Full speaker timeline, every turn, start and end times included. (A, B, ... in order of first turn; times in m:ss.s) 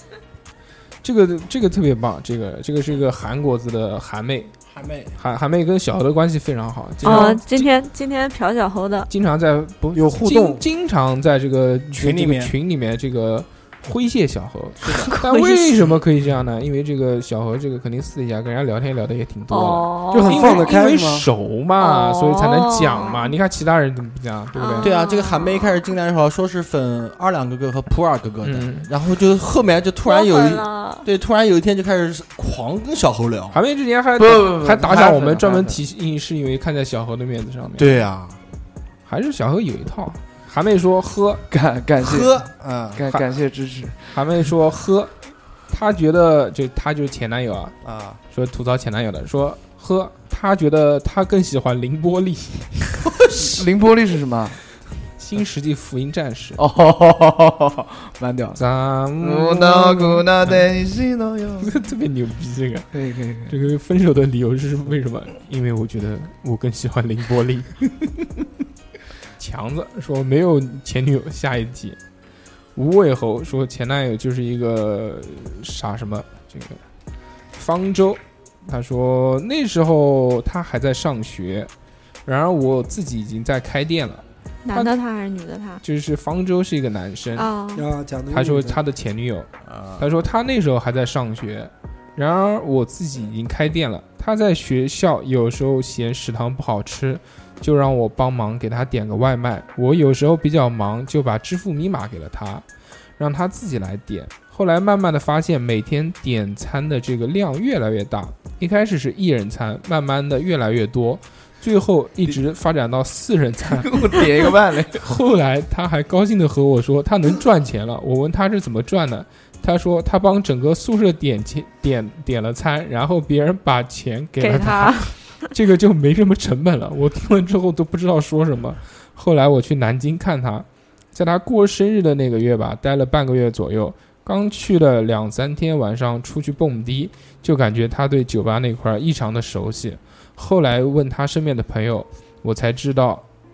0:01.0-0:04.5 A
0:04.7-0:05.2 B
0:05.2-0:07.7 A
0:07.0-0:07.3 C
0:07.0-0:09.1 D
0:09.1-0:24.9 A
0:09.9-0:10.6 E
0:11.9-0:12.5 B
0:14.8-0:15.1 B
0:15.3-0:15.8 D
0:19.5-0:20.7 D
0:20.1-0:21.3 E
0:21.8-0:23.3 D
0:24.5-0:25.8 D
0:24.8-0:33.6 B
0:28.4-0:28.9 A
0:30.0-0:31.0 D
0:33.5-0:38.0 A
0:34.2-0:35.8 C
0:37.8-0:38.4 B
0:39.0-0:41.4 A
0:41.5-0:42.3 C
0:42.0-0:43.2 B
0:43.0-0:44.2 C
0:44.1-0:45.1 A
0:45.7-0:47.8 A
0:47.8-0:48.2 B
0:48.3-0:53.4 A
0:53.3-0:54.6 C
0:55.2-0:56.6 A
0:56.6-0:58.6 C
0:58.6-1:00.6 A
0:59.2-1:01.7 C
1:01.6-1:02.9 A
1:02.9-1:03.6 C
1:03.5-1:07.9 A
1:09.4-1:12.0 A
1:12.8-1:16.8 A
1:17.5-1:21.7 A
1:22.2-1:24.9 A
1:24.6-1:25.8 D
1:25.8-1:27.5 A
1:27.4-1:27.9 D
1:27.7-1:28.8 E
1:28.3-1:42.6 A
1:29.6-1:30.1 B
1:43.2-2:23.2 A
1:53.7-1:55.1 C
2:04.4-2:05.3 D